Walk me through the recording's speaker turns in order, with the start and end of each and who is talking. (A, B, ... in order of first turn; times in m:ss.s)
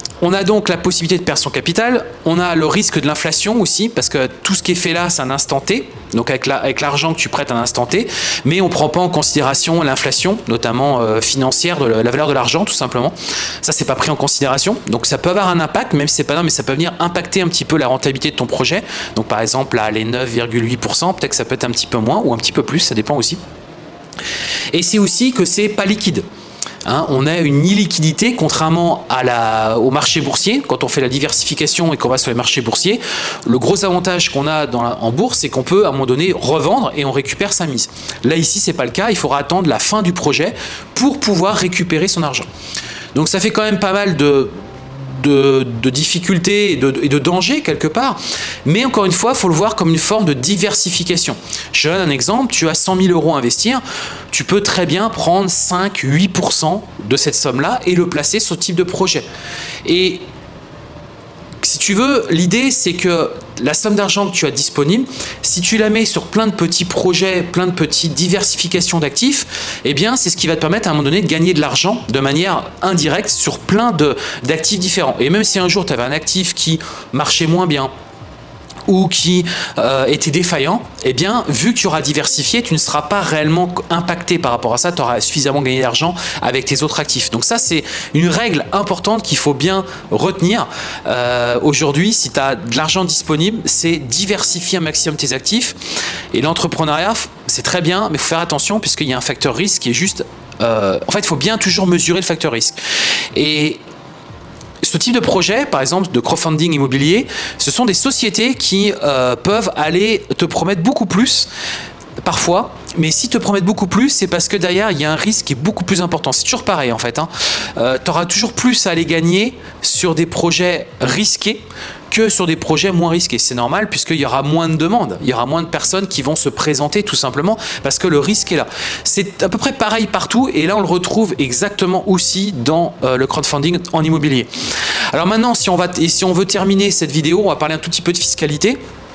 0:00.2-0:23.4 A
0:24.7-0:26.2 A
0:26.8-0:42.5 A
0:43.1-0:59.2 A
0:59.8-1:00.2 A
1:01.6-1:17.9 A
1:18.9-1:35.8 A
1:36.3-1:42.8 A
1:43.3-1:43.8 A
1:44.8-1:51.5 A
1:52.2-2:14.5 A
2:15.1-2:18.8 A